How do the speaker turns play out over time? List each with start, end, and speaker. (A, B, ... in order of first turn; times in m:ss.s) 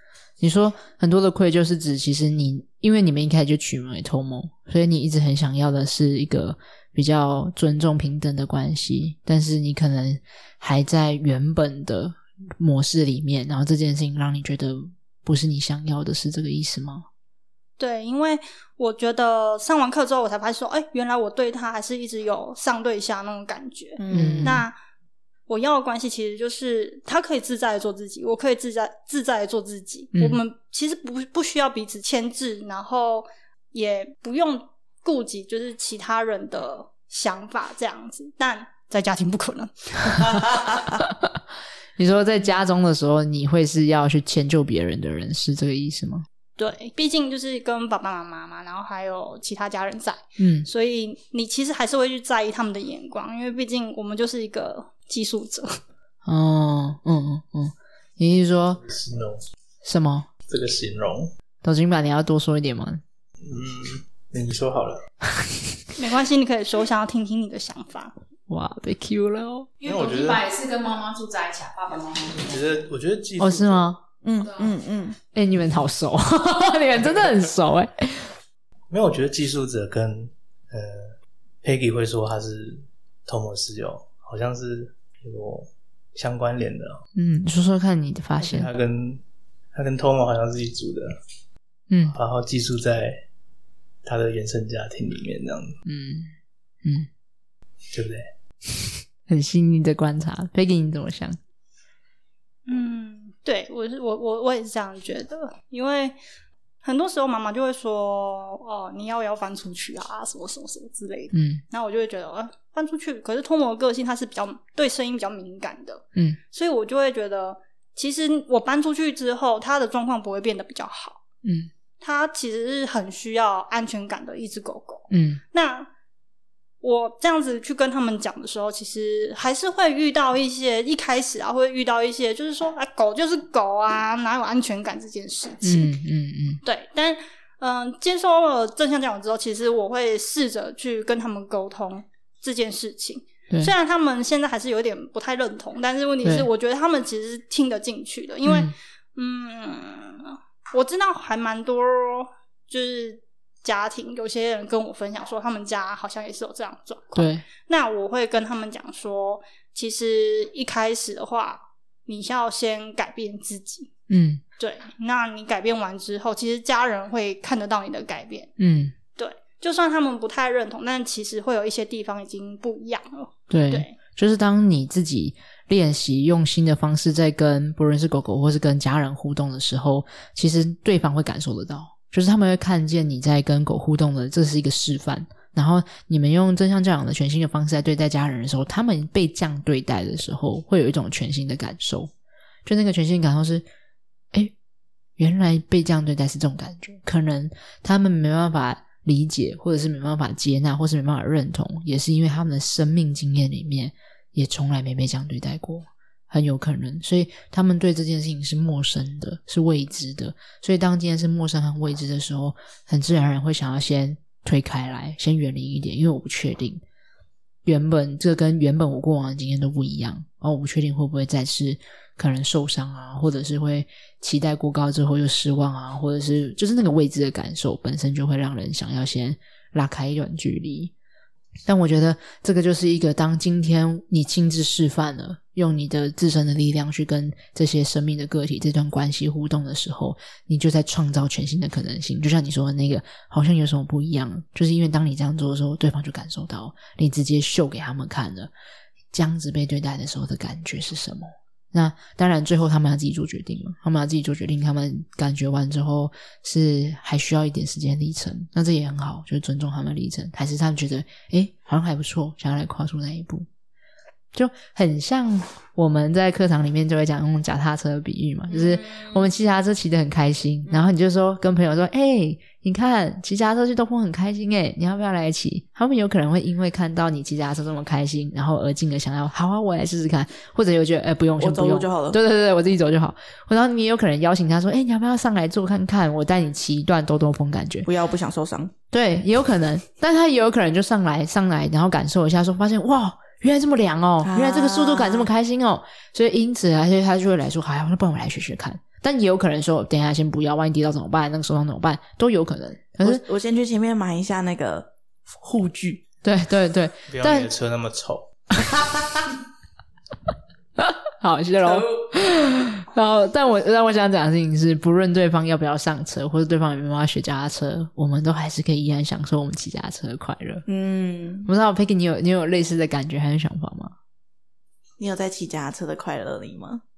0:00.4-0:17.0 A
0:17.8-0:24.7 B
0:24.0-0:24.6 C
0:24.1-0:24.6 A
0:25.5-0:40.6 B
0:42.0-0:46.2 A
0:46.6-0:55.8 B
0:50.4-0:50.7 A
0:56.2-0:58.8 A
0:58.8-0:59.4 D
0:59.8-1:00.3 A
1:00.5-1:01.3 D
1:01.6-1:03.0 A
1:03.4-1:05.0 D
1:06.0-1:08.1 B
1:08.5-1:09.7 A
1:09.8-1:12.7 E
1:09.8-1:10.5 D
1:12.4-1:13.9 D
1:13.4-1:14.0 A
1:14.2-1:15.2 C
1:14.4-1:14.8 E
1:15.3-1:18.3 A
1:18.9-1:27.0 D
1:27.1-1:28.7 A
1:28.4-1:29.2 D
1:29.7-1:31.1 D
1:31.9-1:32.2 A
1:32.1-1:33.2 D
1:34.0-1:35.8 D
1:35.8-1:36.3 A
1:36.8-1:37.1 A
1:37.9-1:38.3 D
1:39.3-1:41.4 A
1:42.6-1:46.2 B
1:46.8-2:01.2 B
1:51.3-1:51.6 A
2:01.4-2:01.7 A
2:02.0-2:05.9 B
2:05.1-2:05.4 A
2:06.8-2:15.9 B
2:15.6-2:16.6 A
2:16.6-2:43.9 B
2:26.2-2:26.5 A
2:28.4-2:28.7 A
2:37.2-2:37.4 A
2:44.1-2:44.4 A
2:44.6-2:48.5 B
2:48.6-2:48.9 A
2:49.2-2:54.0 B
2:53.5-3:12.1 A
3:12.6-3:13.6 A
3:15.2-3:36.8 A
3:37.6-3:50.9 A
3:51.7-4:08.5 A
4:09.1-4:23.5 A
4:24.3-4:47.9 A
4:28.5-4:29.2 C
4:41.4-4:42.2 C
4:47.8-4:48.7 C
4:48.9-5:03.2 A
4:54.2-4:55.3 C
5:03.0-5:06.0 C
5:06.2-5:07.5 A
5:07.1-5:08.3 D
5:10.8-5:20.6 A
5:11.6-5:11.9 C
5:20.6-5:21.5 C
5:21.4-5:23.9 A
5:25.0-5:26.8 C